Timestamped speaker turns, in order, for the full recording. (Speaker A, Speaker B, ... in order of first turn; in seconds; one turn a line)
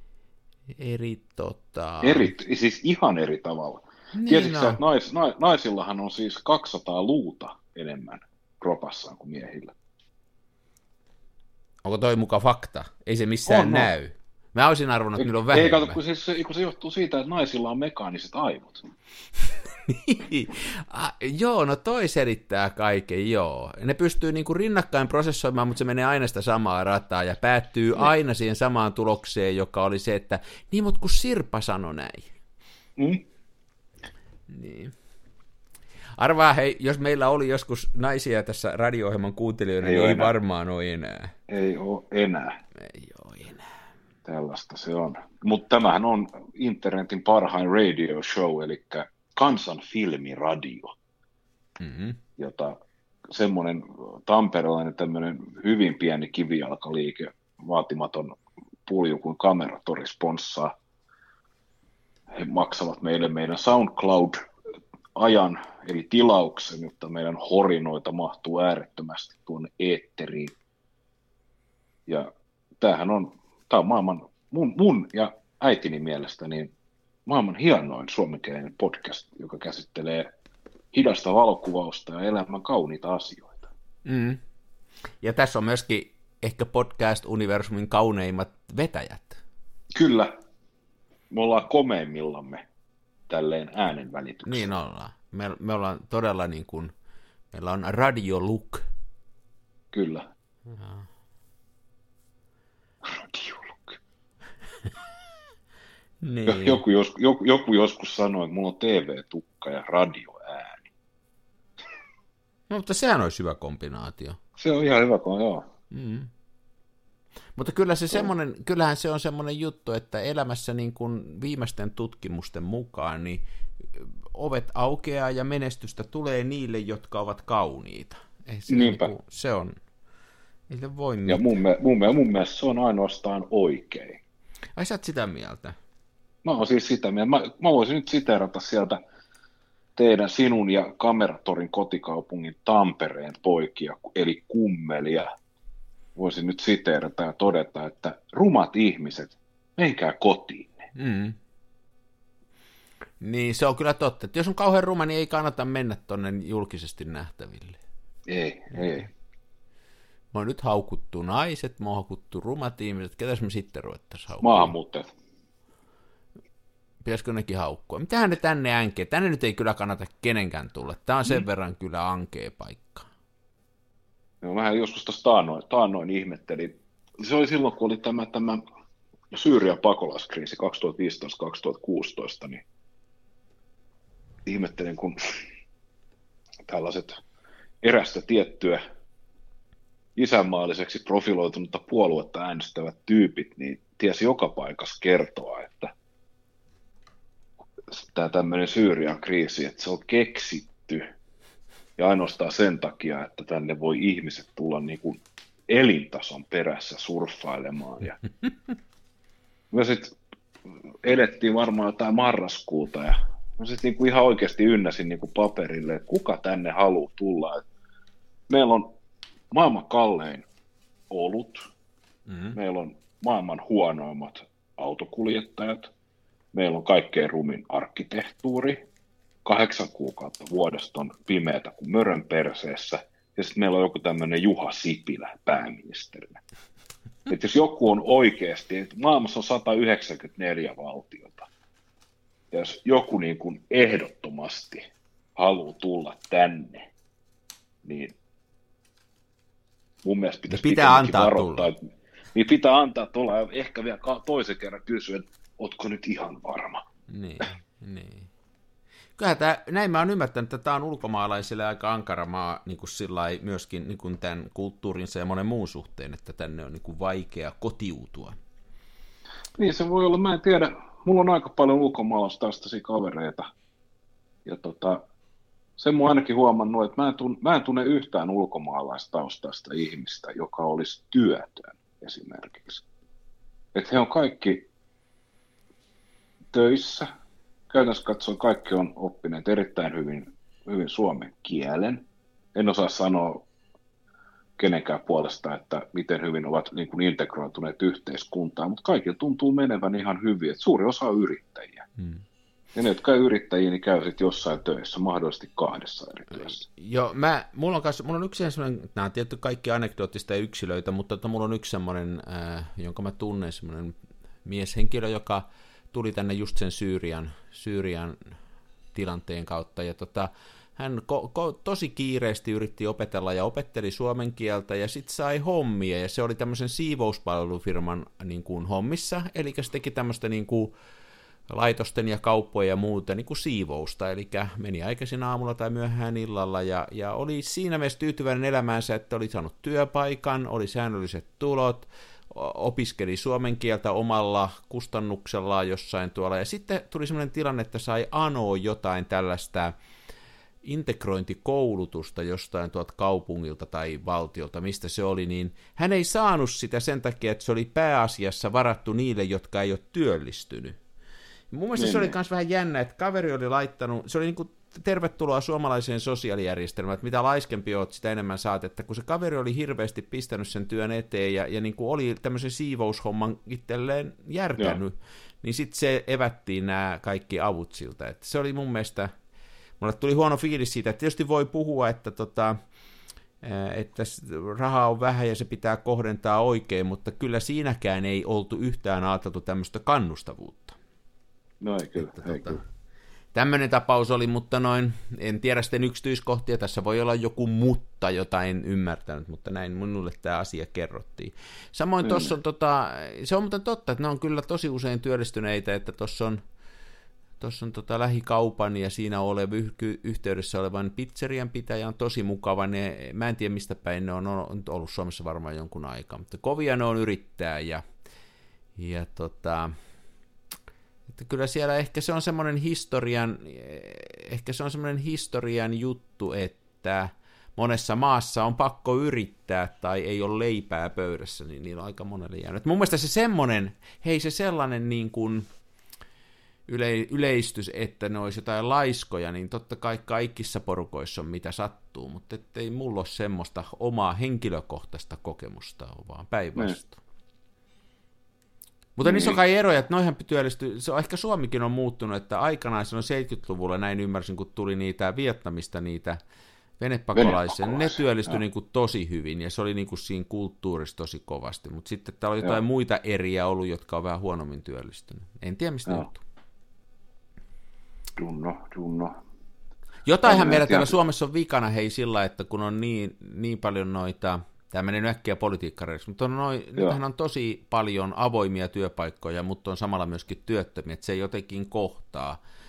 Speaker A: 0.7-2.3
Speaker B: 2.0-9.7
Speaker A: 4.1-4.8
Speaker A: 11.8-16.0
Speaker B: 13.5-13.9
Speaker B: 15.2-18.9
Speaker A: 19.6-32.3
Speaker B: 33.0-33.2
Speaker A: 34.5-34.9
Speaker A: 36.2-41.3
Speaker B: 39.8-40.3
Speaker B: 41.5-42.6
Speaker A: 42.8-43.7
Speaker B: 44.2-50.9
Speaker A: 51.8-52.2
Speaker B: 52.4-60.7
Speaker B: 62.3-64.4
Speaker B: 65.2-70.5
Speaker B: 72.8-76.7
Speaker B: 77.2-80.3
Speaker B: 80.9-83.7
Speaker A: 84.0-84.4
Speaker A: 85.2-89.4
Speaker B: 89.9-90.3
Speaker B: 91.3-92.6
Speaker B: 93.3-94.7
Speaker A: 94.4-96.9
Speaker A: 97.5-98.8
Speaker B: 99.9-100.2
Speaker A: 100.7-101.0
Speaker B: 103.0-104.0
Speaker A: 106.2-106.8
Speaker B: 106.5-110.9
Speaker A: 112.7-114.4
Speaker B: 114.6-115.7
Speaker A: 115.9-116.3
Speaker A: 117.5-129.8
Speaker B: 128.7-129.1
Speaker A: 130.7-131.4
Speaker B: 131.2-134.2
Speaker A: 134.8-135.8
Speaker B: 136.4-139.0
Speaker B: 139.9-145.3
Speaker B: 146.2-150.9
Speaker A: 150.9-151.4
Speaker A: 153.2-157.8
Speaker B: 158.3-159.1
Speaker A: 160.3-164.7
Speaker B: 164.4-165.1
Speaker A: 167.0-173.1
Speaker B: 174.4-178.6
Speaker B: 179.3-182.6
Speaker B: 184.4-185.5
Speaker B: 186.7-187.2
Speaker B: 187.8-188.8
Speaker B: 190.2-195.9
Speaker B: 197.9-201.1
Speaker B: 202.0-208.2
Speaker B: 209.7-210.2
Speaker B: 211.0-217.6
Speaker B: 218.5-218.9
Speaker B: 219.5-220.4
Speaker B: 221.1-221.7
Speaker A: 222.3-222.6
Speaker B: 222.5-225.9
Speaker B: 226.5-228.8
Speaker B: 229.4-236.4
Speaker B: 237.3-241.5
Speaker B: 242.5-244.8
Speaker B: 245.3-246.9
Speaker B: 247.8-248.1
Speaker B: 250.0-251.8
Speaker A: 250.5-251.7
Speaker B: 252.3-256.8
Speaker A: 257.1-258.3
Speaker A: 259.2-268.3
Speaker B: 269.6-273.5
Speaker B: 274.4-275.0
Speaker B: 275.8-282.8
Speaker B: 283.7-284.7
Speaker B: 286.5-287.1
Speaker B: 287.7-293.4
Speaker B: 294.6-301.9
Speaker B: 302.7-306.6
Speaker A: 306.4-318.3
Speaker A: 318.9-330.7
Speaker A: 331.5-349.8
Speaker A: 350.6-360.8
Speaker A: 361.5-379.1
Speaker B: 361.8-362.1
Speaker A: 379.8-382.6
Speaker A: 383.4-390.8
Speaker B: 391.6-392.6
Speaker A: 392.0-392.6
Speaker A: 393.3-406.4
Speaker B: 402.0-402.3
Speaker A: 407.4-417.8
Speaker A: 418.8-419.7
Speaker A: 421.1-435.5
Speaker A: 436.7-447.0
Speaker A: 449.0-456.2
Speaker B: 449.0-449.4
Speaker A: 456.8-466.2
Speaker B: 457.1-458.4
Speaker B: 468.2-469.2
Speaker A: 470.1-482.4
Speaker B: 470.2-470.9